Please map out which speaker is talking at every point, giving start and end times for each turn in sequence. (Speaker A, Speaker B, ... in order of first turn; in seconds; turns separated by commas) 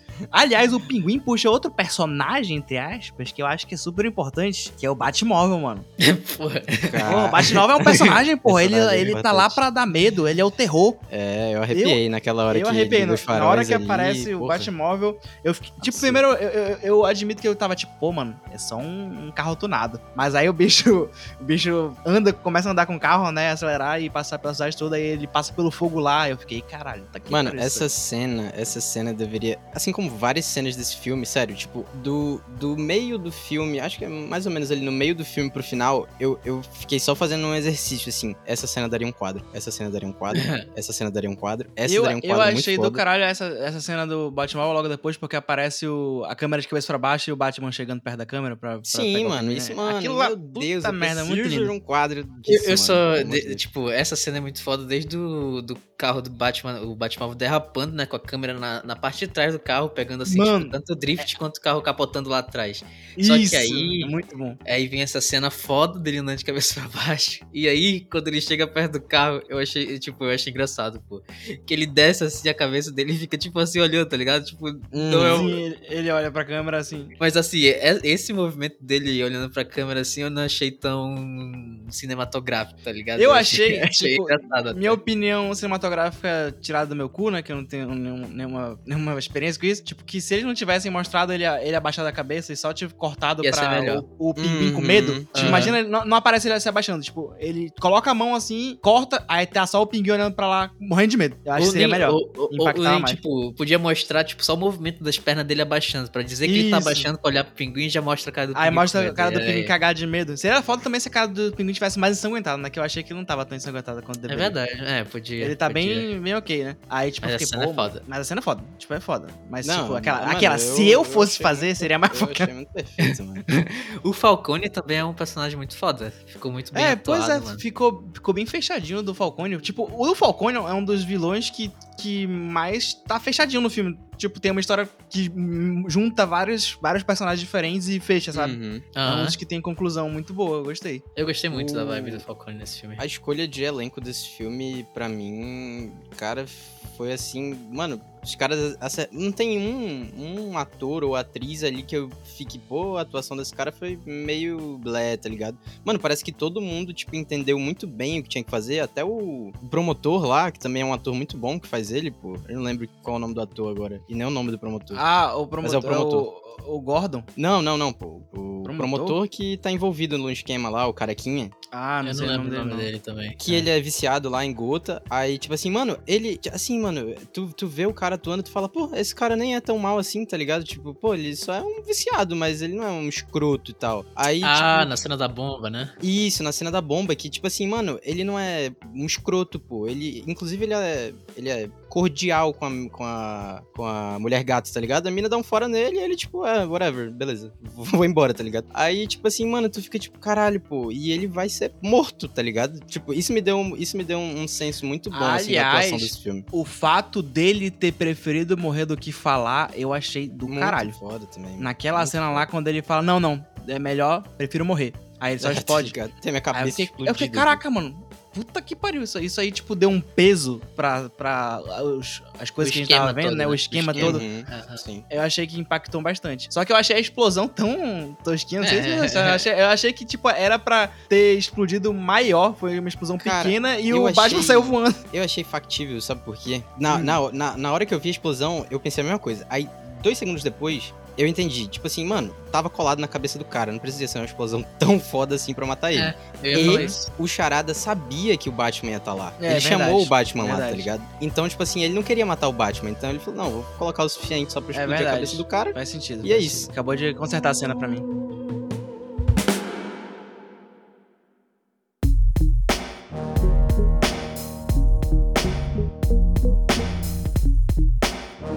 Speaker A: 0.3-5.8, Speaker B: 6.0-7.0, Speaker C: 6.7-9.6, Speaker A: 7.0-11.0, Speaker C: 11.1-14.7, Speaker A: 11.7-27.9, Speaker C: 15.8-16.2, Speaker C: 27.3-43.0, Speaker B: 40.3-40.6, Speaker A: 41.8-51.7, Speaker C: 48.9-53.6, Speaker B: 52.5-64.1, Speaker A: 60.2-61.2, Speaker A: 63.2-64.6, Speaker B: 64.7-75.5, Speaker C: 74.9-75.6, Speaker A: 75.2-77.1, Speaker B: 77.2-85.0, Speaker A: 83.2-103.2, Speaker B: 93.4-94.0, Speaker C: 94.4-95.7, Speaker B: 95.3-95.8, Speaker B: 101.6-109.7, Speaker A: 106.4-107.1, Speaker A: 108.5-114.5, Speaker B: 114.3-116.1, Speaker A: 115.4-122.5, Speaker B: 117.2-118.0, Speaker C: 119.6-123.4, Speaker B: 123.0-127.6, Speaker A: 126.7-141.0, Speaker C: 138.3-138.8, Speaker B: 138.9-139.3, Speaker B: 141.2-143.0, Speaker C: 141.5-142.2, Speaker C: 143.0-165.0, Speaker A: 164.9-167.3, Speaker C: 165.6-166.2, Speaker C: 167.4-171.5, Speaker A: 168.6-169.2, Speaker A: 171.7-172.9, Speaker B: 172.0-173.7, Speaker C: 173.4-184.9, Speaker B: 184.4-185.9, Speaker C: 186.0-206.4, Speaker A: 205.1-210.9, Speaker C: 210.5-212.4, Speaker A: 211.6-216.0, Speaker C: 215.4-217.6, Speaker A: 216.5-224.2, Speaker B: 222.6-224.8, Speaker C: 224.0-225.1, Speaker A: 225.1-235.0, Speaker B: 228.6-229.4, Speaker C: 233.2-256.7, Speaker A: 236.9-237.2, Speaker B: 245.9-247.1, Speaker A: 246.6-247.0, Speaker A: 249.4-250.9, Speaker A: 254.7-258.1